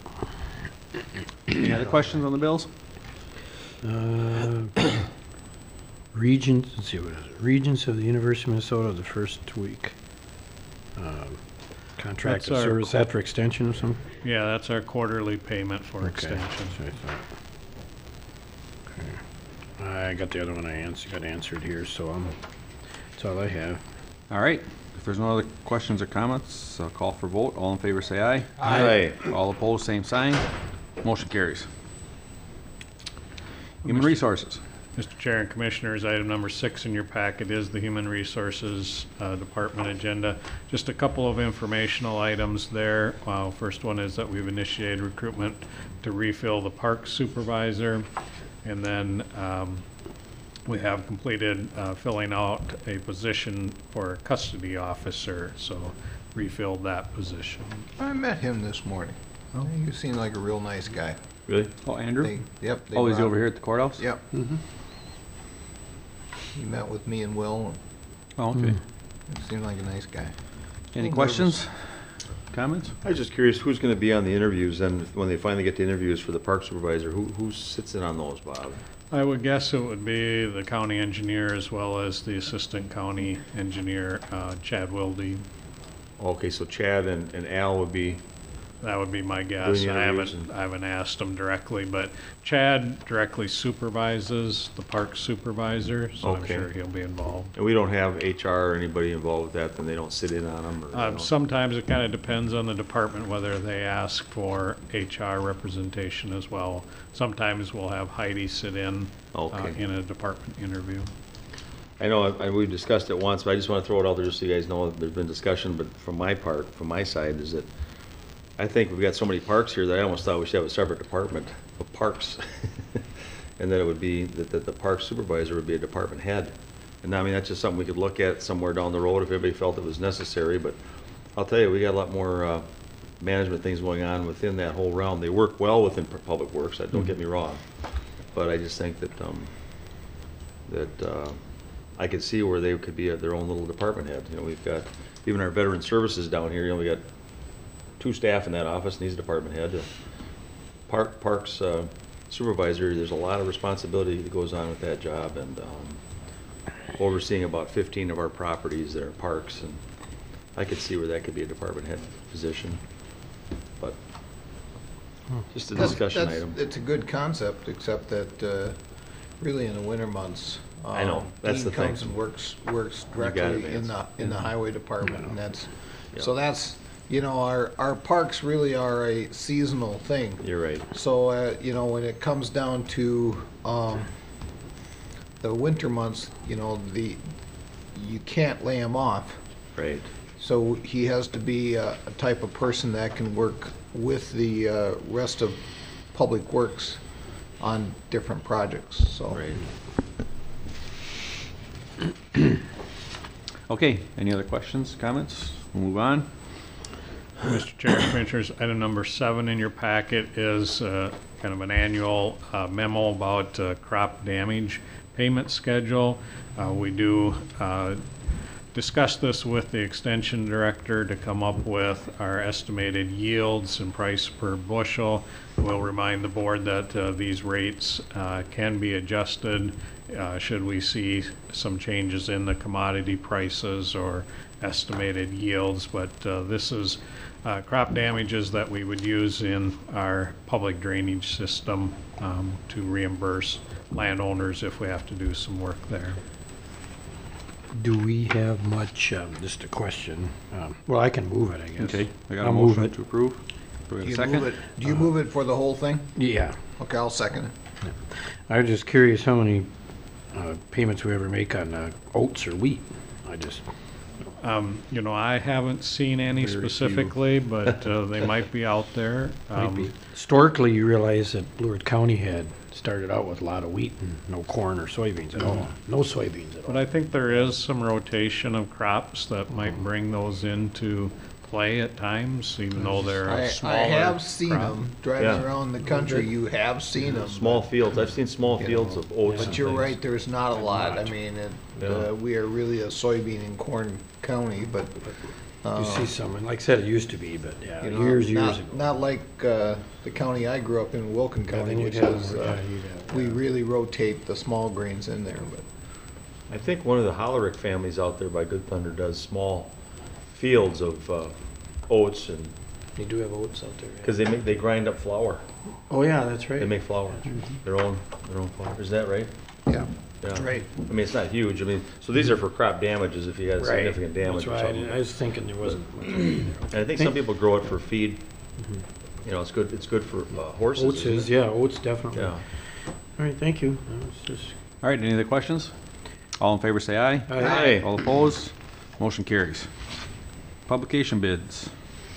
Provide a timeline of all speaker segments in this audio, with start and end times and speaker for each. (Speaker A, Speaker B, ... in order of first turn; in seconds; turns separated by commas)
Speaker A: 1.6-2.7, Speaker B: 3.8-4.8, Speaker B: 6.1-9.9, Speaker B: 10.9-14.1, Speaker C: 12.2-12.9, Speaker C: 14.2-16.8, Speaker B: 16.0-17.2, Speaker B: 18.9-19.2, Speaker B: 19.8-22.4, Speaker B: 23.1-23.8, Speaker A: 24.3-30.5, Speaker D: 28.6-28.9, Speaker E: 28.6-29.2, Speaker A: 31.0-31.7, Speaker C: 33.8-48.1, Speaker A: 33.8-34.6, Speaker C: 48.6-49.8, Speaker C: 50.6-57.9, Speaker D: 58.0-61.2, Speaker A: 61.8-62.3, Speaker D: 62.2-64.2, Speaker A: 62.9-64.0, Speaker D: 66.5-67.8, Speaker A: 68.4-68.8, Speaker B: 68.5-68.8, Speaker D: 69.3-70.3, Speaker A: 70.9-72.9, Speaker D: 70.9-71.6, Speaker E: 73.0-78.8, Speaker C: 79.1-85.4, Speaker E: 86.2-88.2, Speaker C: 88.8-97.5, Speaker E: 89.6-90.5, Speaker E: 96.2-96.7, Speaker E: 97.5-101.3, Speaker C: 100.9-111.1, Speaker E: 109.3-109.8, Speaker E: 112.0-117.7, Speaker E: 118.6-123.0, Speaker E: 123.6-130.8, Speaker E: 131.3-132.6, Speaker E: 133.2-137.6, Speaker E: 138.3-139.5, Speaker E: 140.7-141.4, Speaker E: 142.0-147.0, Speaker E: 148.0-149.9, Speaker E: 150.9-156.0, Speaker E: 156.9-159.8, Speaker E: 160.6-162.8, Speaker E: 165.5-166.6, Speaker D: 165.7-168.8, Speaker D: 169.4-184.1, Speaker E: 170.9-172.1, Speaker E: 173.2-174.0, Speaker E: 180.4-180.8, Speaker D: 185.4-187.2, Speaker D: 187.9-189.4, Speaker E: 189.7-190.1, Speaker D: 190.4-197.0, Speaker D: 197.6-199.5, Speaker E: 199.3-199.6, Speaker A: 203.7-206.3, Speaker C: 207.4-218.0, Speaker C: 218.7-246.2, Speaker B: 247.7-253.0, Speaker A: 251.8-254.5, Speaker D: 254.0-256.1, Speaker B: 256.1-256.6, Speaker D: 256.8-257.5, Speaker B: 257.8-259.7, Speaker B: 260.3-263.6, Speaker C: 264.4-269.9, Speaker E: 266.3-267.1, Speaker B: 269.5-276.9, Speaker C: 276.7-284.7, Speaker B: 282.8-283.1, Speaker D: 283.2-287.7, Speaker E: 285.2-285.4, Speaker B: 285.9-286.2, Speaker E: 287.0-289.9, Speaker D: 288.6-296.1, Speaker B: 289.3-289.7, Speaker B: 290.6-291.1, Speaker E: 291.8-292.1, Speaker B: 295.8-298.9, Speaker D: 297.8-305.7, Speaker B: 301.5-303.4, Speaker E: 306.5-309.7, Speaker E: 310.3-312.5, Speaker B: 312.9-314.1, Speaker E: 314.0-315.4, Speaker B: 315.9-317.4, Speaker E: 316.6-319.3, Speaker D: 319.7-320.7, Speaker E: 320.2-325.1, Speaker B: 323.6-327.2, Speaker E: 325.6-328.2, Speaker E: 329.2-331.3, Speaker B: 330.7-334.5, Speaker E: 332.1-332.4, Speaker A: 334.8-335.7, Speaker A: 336.4-339.7, Speaker B: 337.3-337.7, Speaker E: 337.4-337.9, Speaker A: 340.7-341.7